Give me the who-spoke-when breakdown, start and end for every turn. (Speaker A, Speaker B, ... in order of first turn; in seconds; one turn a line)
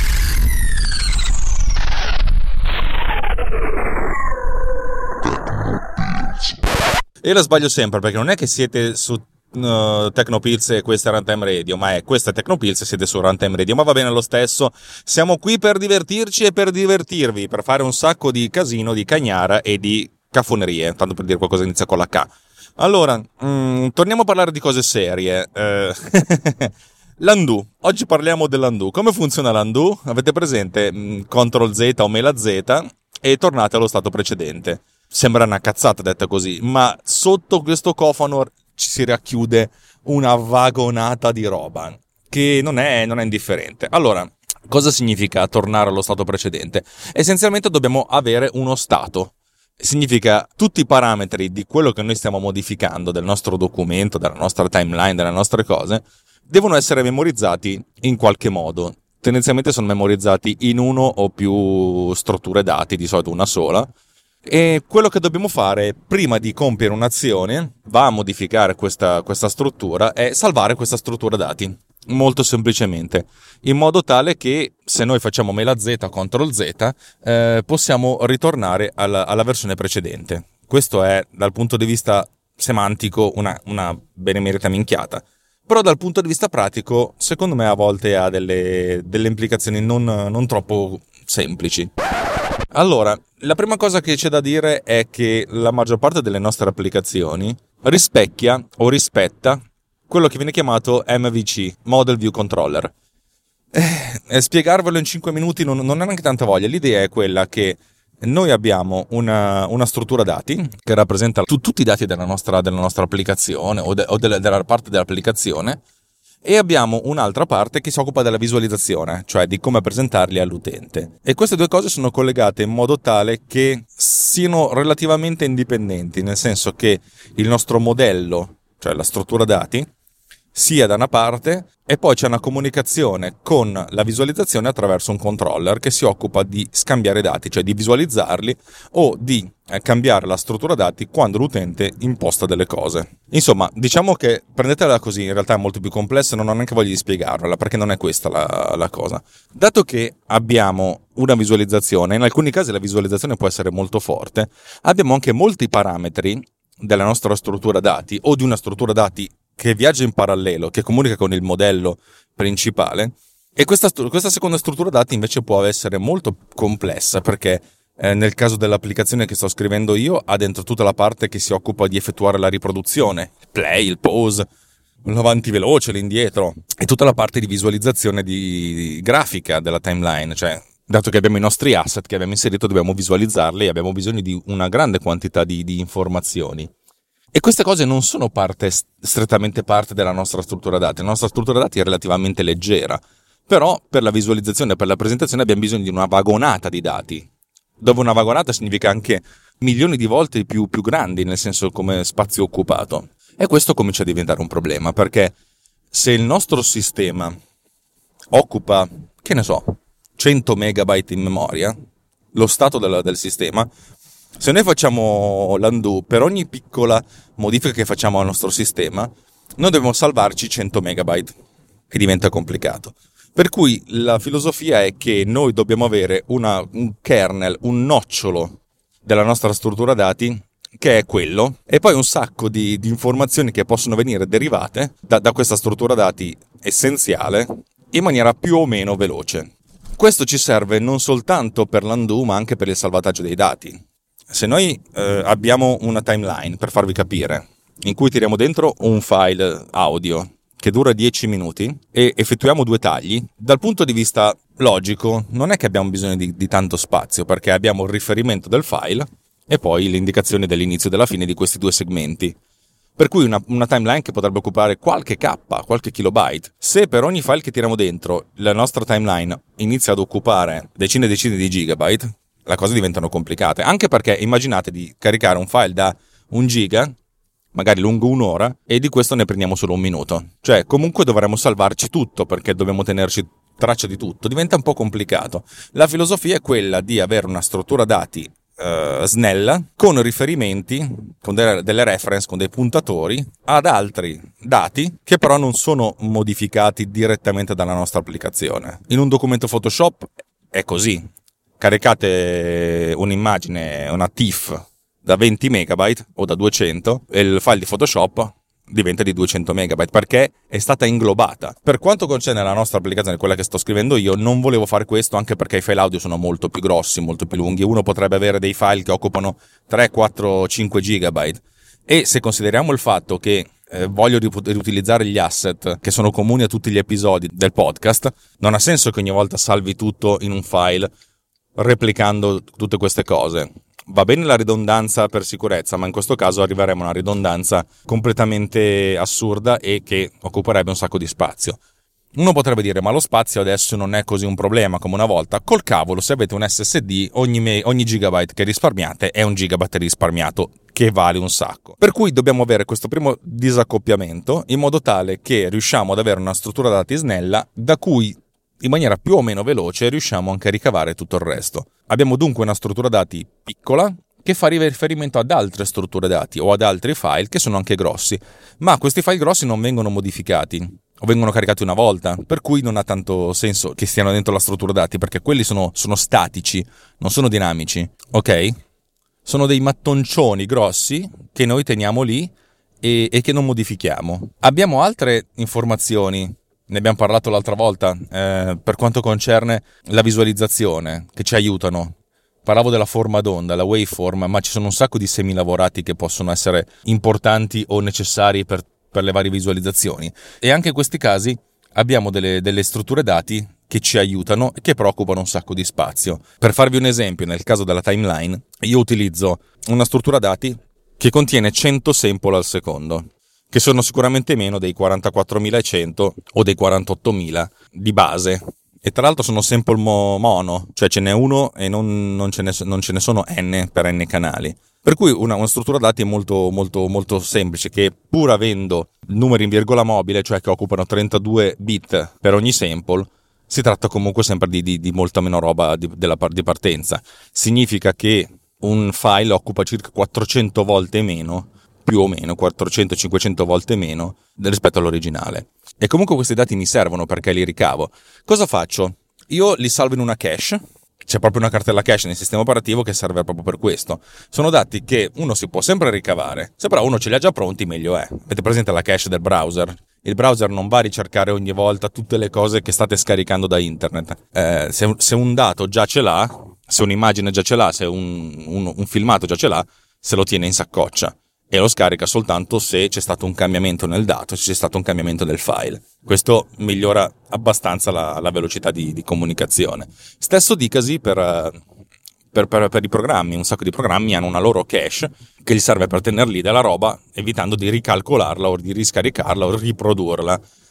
Speaker A: 7.2-63.9
Speaker A: 64.5-91.9
Speaker A: 92.7-102.9
Speaker A: 103.7-115.8
Speaker A: 116.4-129.9
Speaker A: 130.5-174.5
Speaker A: 175.1-186.7
Speaker A: 187.3-197.3
Speaker A: 197.8-205.3
Speaker A: 205.9-207.3
Speaker A: 208.3-211.8
Speaker A: 212.3-213.7
Speaker A: 214.4-221.3
Speaker A: 221.9-243.8
Speaker A: 244.3-262.4
Speaker A: 263.0-276.9
Speaker A: 277.5-301.1
Speaker A: 301.6-330.9
Speaker A: 331.6-341.6
Speaker A: 342.1-378.6
Speaker A: 379.2-382.3
Speaker A: 382.8-481.6
Speaker A: 482.3-490.4